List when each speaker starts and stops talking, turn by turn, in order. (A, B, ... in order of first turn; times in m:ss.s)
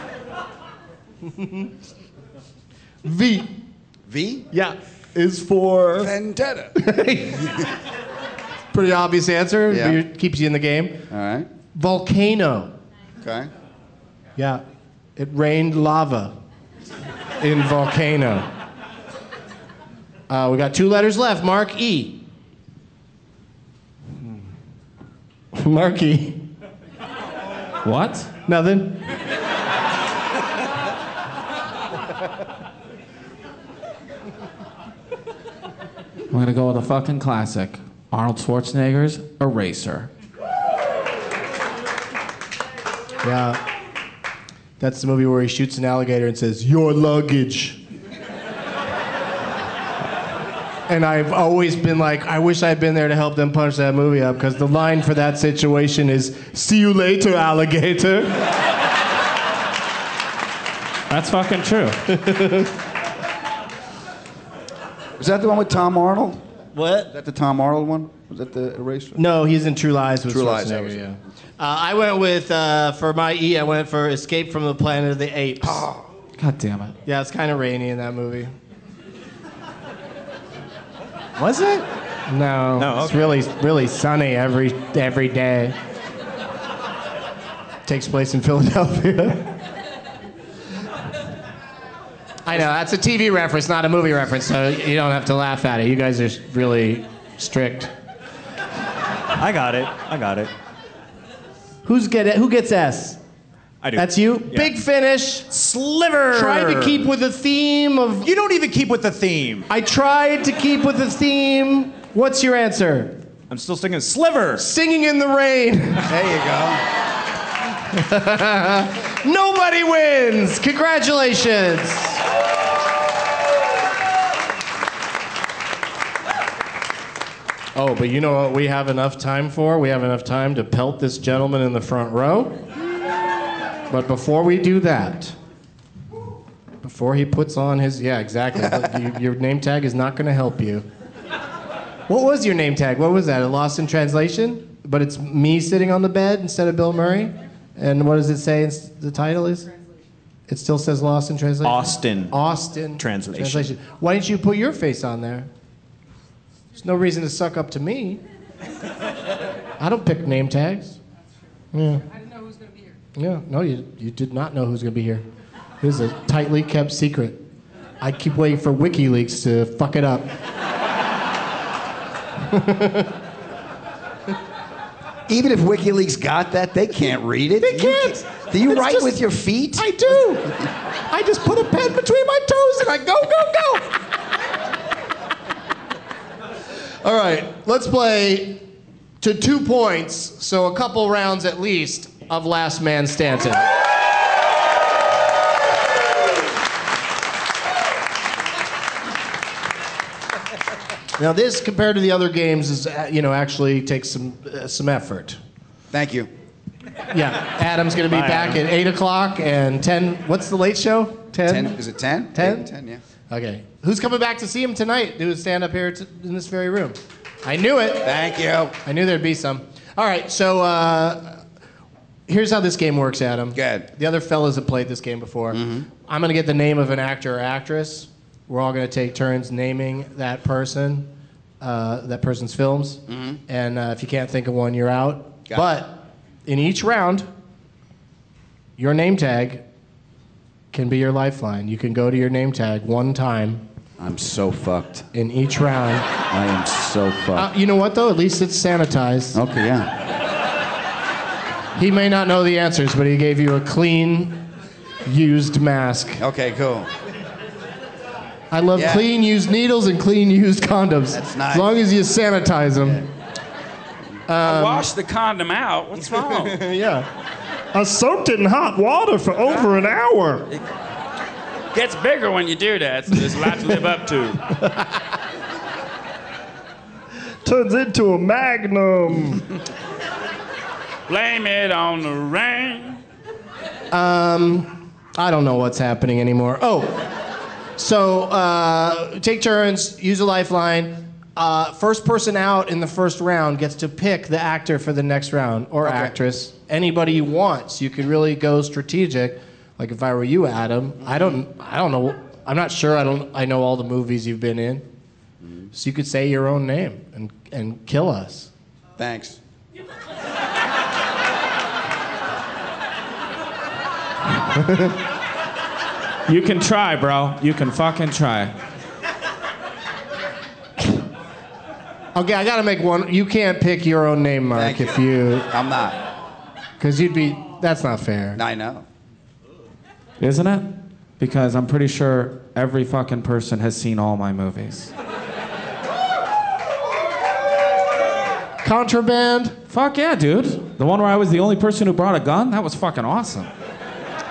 0:03.0-0:03.5 A
0:04.1-0:04.5 B
0:04.5-0:06.1 A
0:06.0-0:06.8 B
0:06.8-0:07.5 A
0:08.7-0:11.0 A
0:09.7-0:10.0 B
0:11.1-0:11.5 B
0:11.8-0:12.7 A
0:13.2-0:13.5 B
0:14.4-0:14.6 A
0:15.2-0:16.4 A
0:17.4-0:18.5 A
0:20.3-0:22.2 A
0:25.6-0:26.4 A
0:27.8-0:28.3 C
0:28.5-0:29.0 A
0:36.3-0:40.1 C
0:43.2-0:43.6 A
0:44.8-0:47.8 A
0:50.9-0:58.4 A
1:01.1-1:02.0 C
1:02.1-1:02.7 A
1:05.2-1:06.4 B
1:06.7-1:07.1 A
1:07.1-1:09.2 B
1:09.2-1:15.9 A
1:10.3-1:11.0 B
1:15.6-1:16.0 B
1:16.4-1:17.0 C
1:17.1-1:18.5 A
1:21.4-1:21.8 D
1:22.3-1:25.8 A
1:22.8-1:23.3 D
1:27.9-1:29.6 A
1:32.5-1:37.9 A
1:39.4-1:40.5 D
1:41.8-1:43.2 A
1:43.8-1:44.7 D
1:44.0-1:45.5 A
1:45.5-1:47.1 D
1:46.3-1:48.3 A
1:48.2-1:49.7 D
1:49.7-1:53.2 A
1:53.5-1:54.7 D
1:54.6-1:56.1 A
1:56.1-1:56.8 B
1:57.9-2:02.2 A
2:07.8-2:12.6 A
2:13.9-2:15.4 A
2:16.8-2:20.9 A
2:22.1-2:29.7 A
2:30.5-2:35.5 A
2:31.6-2:32.3 D
2:33.0-2:33.7 D
2:36.8-2:38.2 A
2:39.8-2:41.0 A
2:41.7-2:42.0 A
2:43.2-2:45.2 A
2:45.8-2:47.4 A
2:48.0-2:50.3 A
2:52.5-2:53.1 A
2:55.3-3:00.3 B
2:57.6-2:59.2 A
2:59.8-3:00.6 A
3:01.1-3:03.9 A
3:07.0-3:08.7 A
3:09.2-3:13.7 A
3:21.2-3:25.4 A
3:25.9-3:26.3 B
3:27.1-3:31.8 A
3:28.1-3:28.6 D
3:31.5-3:33.0 B
3:32.3-3:32.7 A
3:33.3-3:38.2 A
3:38.0-3:38.8 B
3:38.8-3:41.4 A
3:42.3-3:51.1 A
3:43.6-3:43.9 B
3:45.5-3:45.9 B
3:51.6-3:57.3 A
3:53.1-3:53.4 B
3:58.8-3:59.6 A
4:00.7-4:03.6 A
4:04.0-4:05.1 B
4:05.1-4:06.1 A
4:06.3-4:07.5 B
4:07.4-4:09.4 A
4:09.3-4:09.9 B
4:11.8-4:14.5 A
4:15.0-4:16.2 A
4:16.2-4:16.9 B
4:18.5-4:23.0 A
4:18.8-4:19.1 B
4:21.1-4:21.8 B
4:24.3-4:24.9 A
4:24.4-4:26.6 E
4:26.3-4:27.1 A
4:27.7-4:30.4 A
4:31.7-4:34.5 E
4:37.4-4:39.4 A
4:41.1-4:43.0 E
4:43.9-4:47.1 A
4:47.8-5:04.8 A
4:55.8-4:56.1 B
5:01.1-5:01.4 B
5:05.4-5:05.7 B
5:05.7-5:08.5 A
5:09.0-5:09.4 B
5:14.5-5:15.0 A
5:16.3-5:18.5 C
5:22.2-5:25.5 A
5:24.5-5:26.0 B
5:26.8-5:28.4 A
5:28.4-5:28.8 B
5:30.2-5:34.9 C
5:38.6-5:39.6 A
5:39.7-5:43.5 C